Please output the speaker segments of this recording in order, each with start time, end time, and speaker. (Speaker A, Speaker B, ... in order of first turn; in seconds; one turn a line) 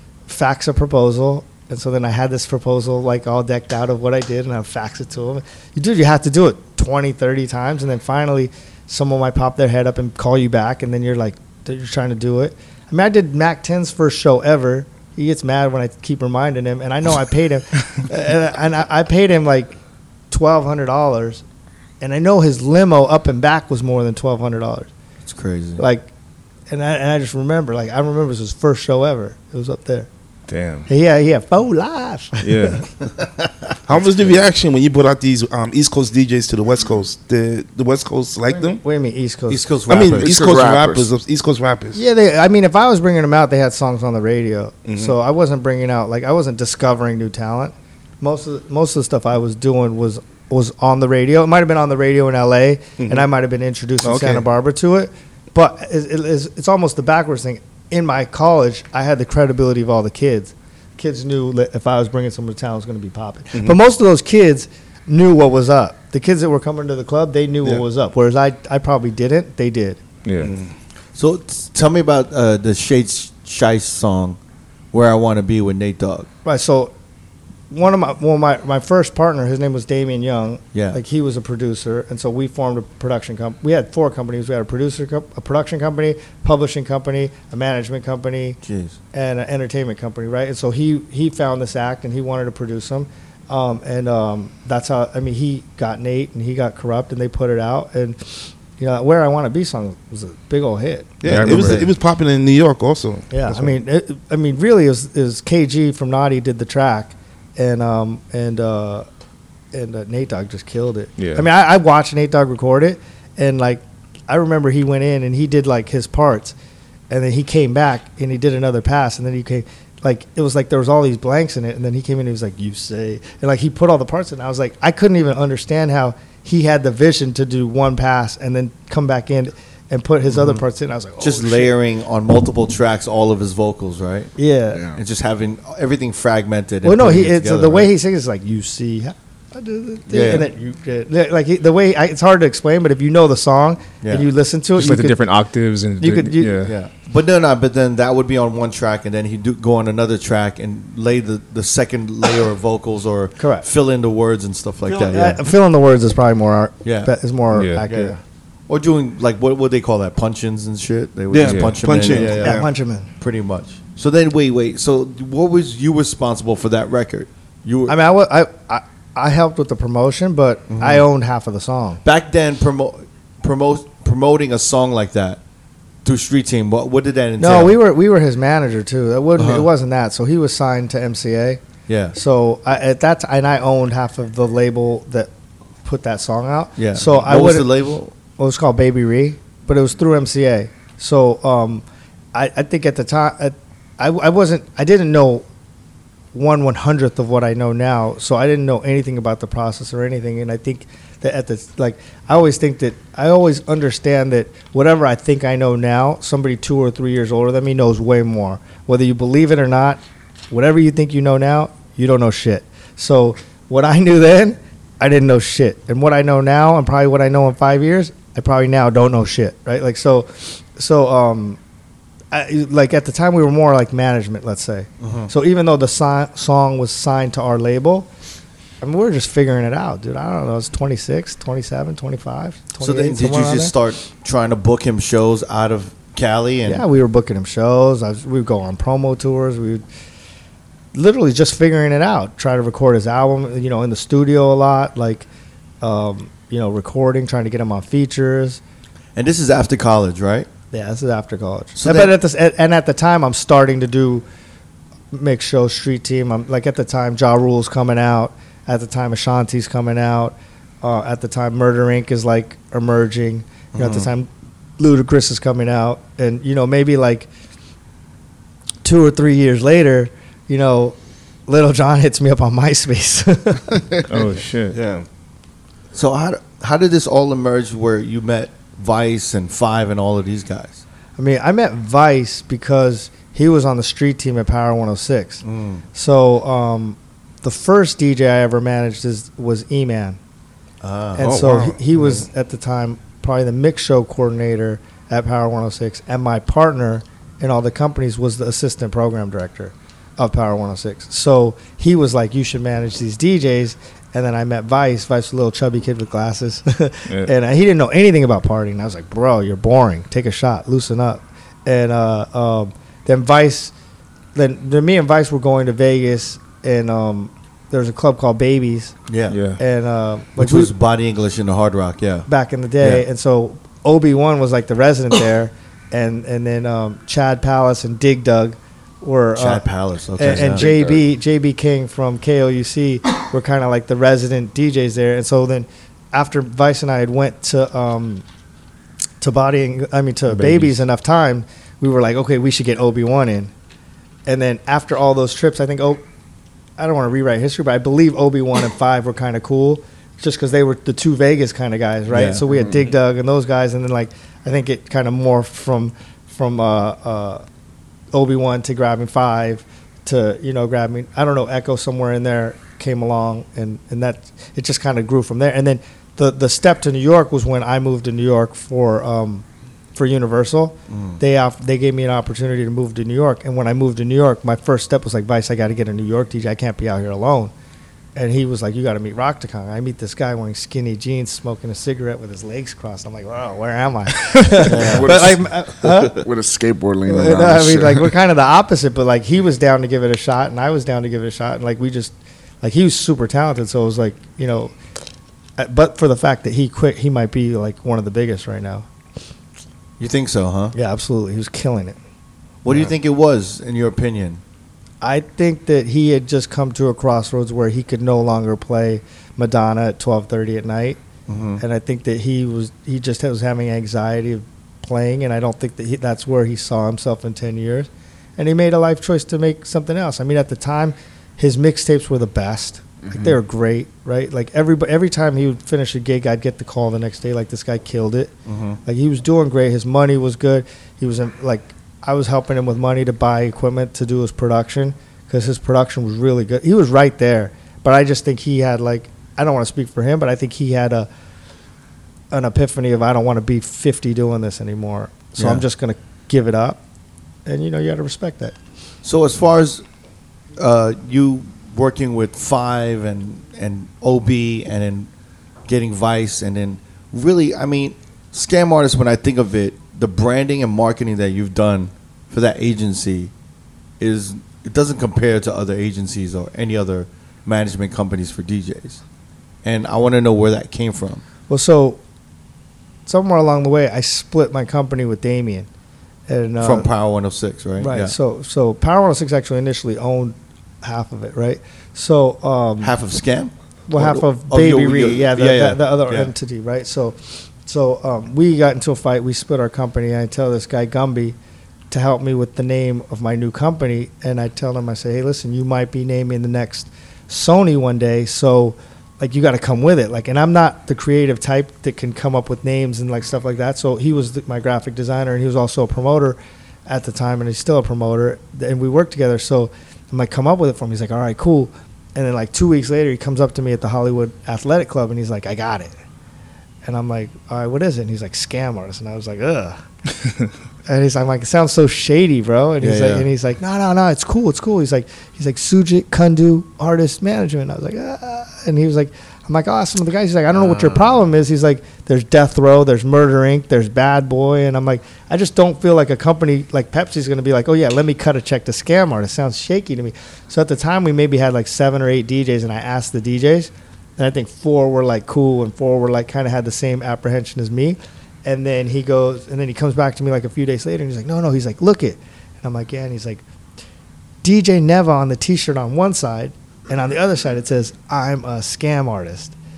Speaker A: 0.3-19.8
Speaker A: 20.3-21.4
Speaker A: 22.0-24.9
Speaker B: 25.2-25.8
Speaker A: 25.8-26.1
Speaker A: 26.7-30.1
Speaker C: 30.5-30.9
Speaker A: 30.9-32.8
Speaker C: 32.4-32.9
Speaker B: 33.2-33.5
Speaker D: 33.9-38.8
Speaker A: 38.6-39.6
Speaker B: 39.5-40.5
Speaker D: 39.9-42.0
Speaker E: 40.2-41.0
Speaker A: 41.9-70.0
Speaker D: 44.9-45.1
Speaker C: 70.2-70.5
Speaker D: 70.4-70.7
Speaker B: 71.1-74.4
Speaker B: 74.9-76.3
Speaker A: 76.4-76.9
Speaker A: 77.7-88.6
Speaker B: 80.7-81.0
Speaker B: 88.6-89.0
Speaker A: 89.1-101.2
Speaker B: 101.2-101.9
Speaker D: 101.2-103.7
Speaker C: 101.2-101.9
Speaker A: 103.3-109.0
Speaker A: 109.7-116.5
Speaker C: 111.2-111.5
Speaker A: 117.1-131.7
Speaker B: 130.3-130.6
Speaker B: 131.2-134.3
Speaker A: 134.4-134.8
Speaker E: 134.7-135.0
Speaker B: 134.9-137.9
Speaker A: 136.8-145.2
Speaker B: 140.1-140.5
Speaker B: 144.0-144.3
Speaker C: 144.8-146.7
Speaker A: 146.0-146.6
Speaker B: 146.6-155.4
Speaker A: 153.4-153.7
Speaker A: 154.8-158.2
Speaker B: 156.8-157.1
Speaker C: 157.5-157.8
Speaker B: 157.8-158.2
Speaker B: 158.7-162.6
Speaker D: 161.3-162.7
Speaker C: 161.4-162.2
Speaker A: 162.1-163.1
Speaker B: 163.2-168.0
Speaker A: 167.9-172.0
Speaker B: 170.7-171.0
Speaker B: 172.0-175.4
Speaker B: 176.0-177.8
Speaker A: 177.4-181.6
Speaker B: 179.4-179.7
Speaker B: 181.9-182.2
Speaker A: 182.1-185.3
Speaker A: 185.8-187.7
Speaker B: 186.8-188.1
Speaker A: 188.3-195.4
Speaker A: 196.3-221.6
Speaker A: 222.3-228.1
Speaker B: 225.0-225.3
Speaker A: 228.8-233.7
Speaker B: 232.8-236.8
Speaker A: 236.6-239.8
Speaker A: 240.9-245.3
Speaker A: 245.8-248.6
Speaker B: 249.2-250.5
Speaker A: 250.7-254.2
Speaker B: 251.7-252.1
Speaker A: 255.1-267.3
Speaker B: 263.7-264.1
Speaker A: 268.8-270.9
Speaker A: 271.5-274.0
Speaker C: 274.1-274.8
Speaker B: 275.9-280.8
Speaker A: 281.2-285.4
Speaker B: 285.4-285.8
Speaker A: 285.9-290.2
Speaker B: 290.8-291.4
Speaker A: 291.1-313.7
Speaker D: 291.2-291.8
Speaker A: 314.3-318.9
Speaker B: 319.1-319.4
Speaker C: 319.3-319.6
Speaker A: 319.6-320.7
Speaker B: 320.4-322.3
Speaker A: 322.3-329.6
Speaker B: 329.4-331.0
Speaker A: 330.2-338.2
Speaker A: 339.2-343.5
Speaker C: 340.3-340.7
Speaker A: 344.2-346.0
Speaker A: 346.8-357.4
Speaker B: 352.1-352.4
Speaker E: 352.5-352.8
Speaker A: 358.1-377.5
Speaker B: 370.9-371.2
Speaker A: 378.1-386.2
Speaker E: 384.6-388.1
Speaker B: 384.6-385.1
Speaker A: 387.1-394.7
Speaker A: 395.6-398.9
Speaker B: 400.0-400.7
Speaker A: 400.7-402.0
Speaker B: 402.6-404.4
Speaker A: 405.0-411.0
Speaker B: 411.3-411.6
Speaker A: 411.6-428.3
Speaker E: 423.0-423.4
Speaker B: 428.4-428.8
Speaker A: 428.8-441.1
Speaker A: 442.3-446.8
Speaker B: 445.4-445.6
Speaker A: 447.4-448.5
Speaker B: 449.0-449.8
Speaker B: 450.6-455.1
Speaker B: 455.7-463.3
Speaker B: 464.0-469.0
Speaker B: 469.6-471.2
Speaker A: 471.5-472.0
Speaker A: 473.1-475.7
Speaker A: 476.3-476.9
Speaker B: 476.6-478.1
Speaker A: 477.8-482.9
Speaker B: 482.8-486.3
Speaker A: 483.9-491.4
Speaker A: 491.9-516.0
Speaker A: 516.8-519.8
Speaker A: 520.9-553.4
Speaker B: 522.8-523.3
Speaker B: 530.5-531.1
Speaker A: 554.4-559.5